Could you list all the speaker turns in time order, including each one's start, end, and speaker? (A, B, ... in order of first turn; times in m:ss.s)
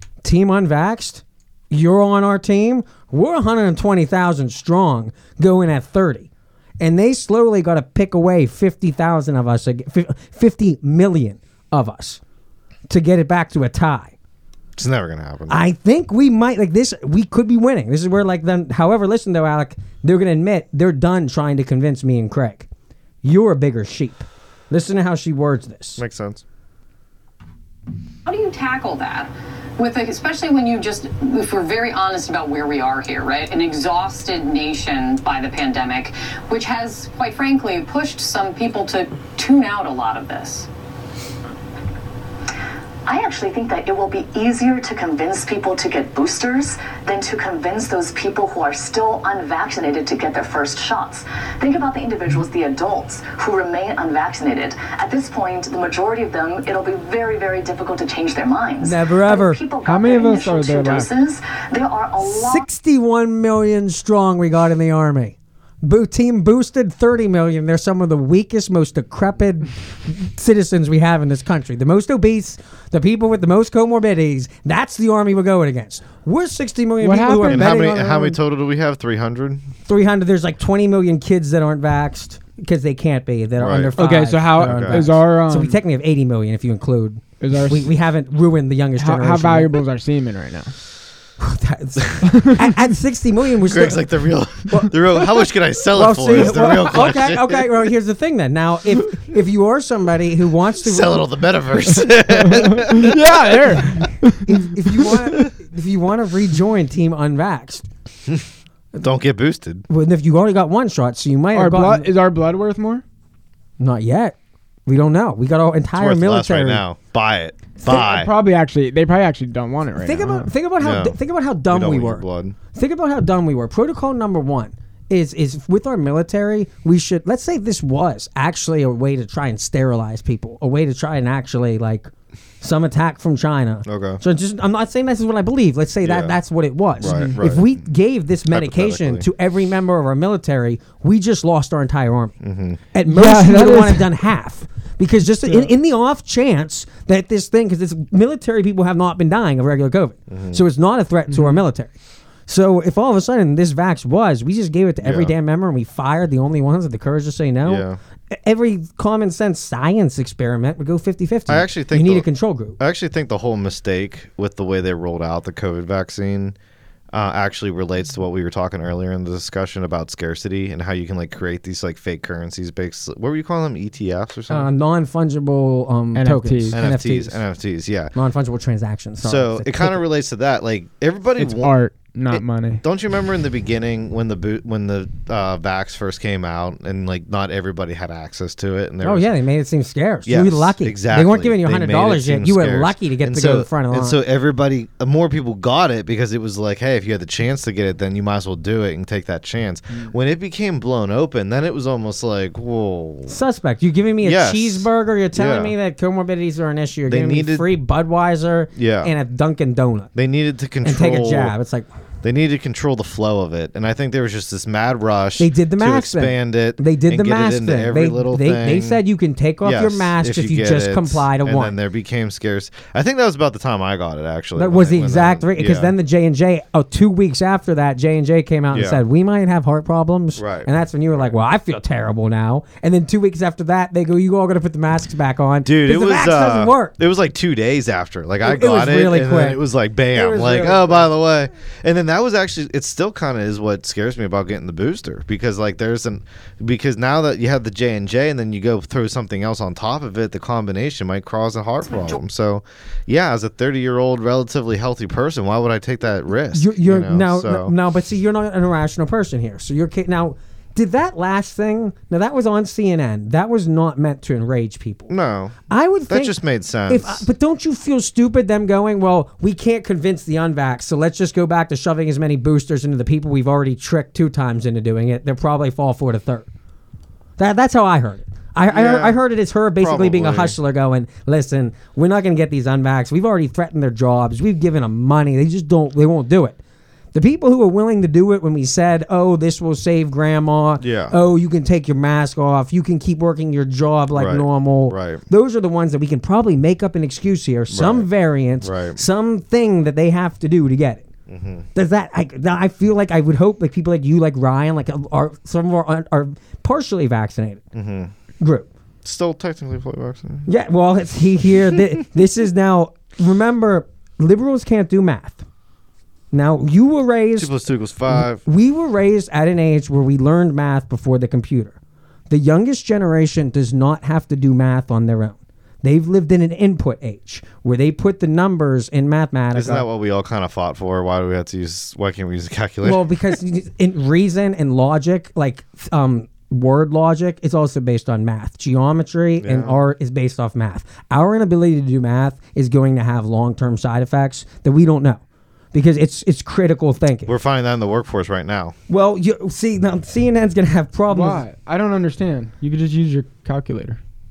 0:00.2-0:06.3 A
0:06.8-0:12.2 A
0:12.9-0:14.1 A
0:14.8-0:15.6 B
0:15.5-0:22.7 A
0:23.2-0:26.0 A
0:26.0-0:26.4 B
0:28.3-0:40.7 C
0:43.1-1:02.7 D
0:58.8-0:59.6 A
0:59.8-1:01.1 E
1:02.2-1:18.4 A
1:17.0-1:18.0 E
1:17.5-1:19.6 B
1:19.9-1:29.8 A
1:23.6-1:25.0 B
1:24.0-1:25.8 E
1:27.4-1:27.9 E
1:29.0-1:30.7 E
1:31.4-1:34.0 A
1:32.3-1:32.7 E
1:33.7-1:37.7 B
1:34.7-1:34.9 A
1:35.9-1:41.2 A
1:40.8-1:43.6 B
1:42.0-1:44.6 E
1:44.0-1:47.9 A
1:49.0-1:49.8 B
1:49.9-1:52.1 A
1:51.5-1:53.0 E
1:53.8-1:56.8 A
1:56.0-1:58.3 B
1:57.9-2:00.5 E
2:00.0-2:12.1 A
2:00.8-2:02.6 B
2:12.6-2:22.4 A
2:13.9-2:14.2 B
2:16.0-2:16.4 B
2:17.0-2:17.8 B
2:17.0-2:17.4 E
2:18.5-2:19.2 B
2:22.4-2:22.8 B
2:22.9-2:31.9 A
2:23.1-2:24.1 E
2:30.3-2:30.6 B
2:31.3-2:31.6 E
2:32.5-2:42.8 A
2:35.0-2:35.3 B
2:37.7-2:38.0 B
2:41.5-2:42.3 B
2:42.8-2:46.6 B
2:47.1-2:54.7 B
2:54.5-2:57.4 A
2:56.1-2:56.8 E
2:56.7-2:58.1 B
2:58.1-3:00.0 A
2:59.2-3:01.8 B
3:01.4-3:02.8 E
3:02.3-3:09.3 B
3:09.0-3:14.2 A
3:10.3-3:23.4 B
3:23.3-3:30.1 A
3:24.2-3:25.8 B
3:27.1-3:27.7 B
3:28.8-3:29.1 B
3:30.1-3:31.6 B
3:30.8-3:31.9 A
3:32.2-3:39.0 B
3:35.4-3:41.8 A
3:39.6-3:45.9 B
3:44.6-3:56.9 A
3:48.7-3:49.0 B
3:50.4-3:50.7 B
3:55.6-4:17.7 B
3:58.4-3:59.6 A
4:00.1-4:01.1 A
4:16.5-4:25.1 A
4:25.1-4:27.3 B
4:25.7-4:36.5 A
4:37.4-4:46.6 A
4:38.7-4:39.2 B
4:39.8-4:40.6 B
4:47.1-5:01.1 A
4:50.8-4:51.1 B
4:54.1-4:55.2 B
4:57.7-4:58.1 B
4:58.6-4:59.0 B
5:01.3-5:01.7 B
5:01.8-5:07.6 A
5:07.7-5:08.1 B
5:08.4-5:08.7 A
5:09.0-5:10.5 B
5:10.5-5:15.4 A
5:16.3-5:17.5 A
5:17.4-5:18.4 B
5:18.2-5:21.8 A
5:22.3-5:29.9 A
5:29.5-5:33.1 B
5:32.8-5:45.2 A
5:39.4-5:39.8 B
5:45.7-5:47.3 A
5:47.3-5:48.8 B
5:48.9-5:51.4 A
5:51.1-5:54.0 E